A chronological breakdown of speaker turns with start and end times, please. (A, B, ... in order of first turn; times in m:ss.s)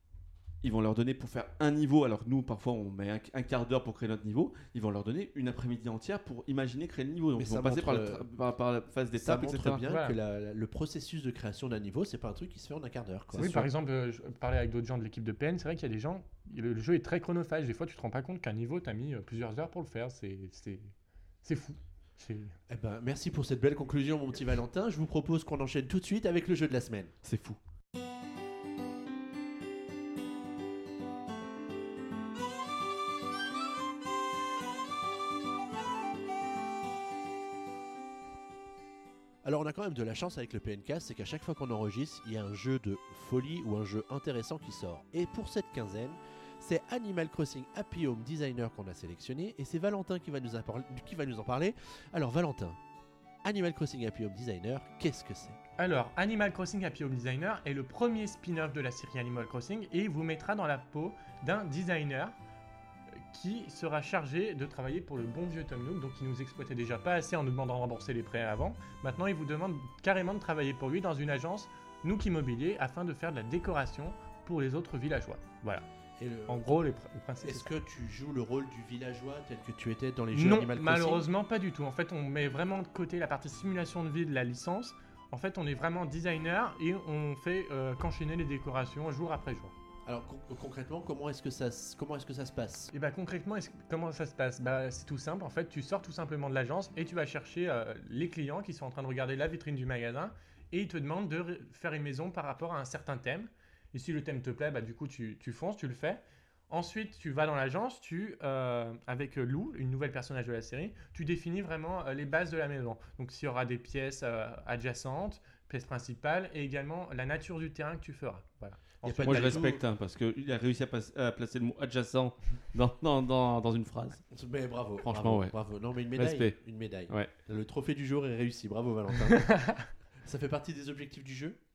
0:00.6-0:09.8 A
0:07.4-0:08.3 B
0:09.2-0:13.7 B
0:09.9-0:10.2 C
0:13.3-0:22.5 C
0:22.7-0:27.1 B
0:27.2-0:27.6 A
0:39.4-0:52.8 B
0:53.4-0:55.6 B
0:55.8-1:02.3 C
1:03.3-1:15.8 C
1:16.2-1:16.8 B
1:16.5-1:17.7 C
1:17.4-1:21.2 B
1:20.3-1:29.7 C
1:30.0-1:32.9 B
1:32.9-1:59.6 C
1:59.0-1:59.8 B
1:59.2-2:04.2 A
2:04.3-2:09.5 B
2:05.0-2:05.5 A
2:06.1-2:06.6 A
2:09.2-2:09.9 C
2:10.2-2:11.6 B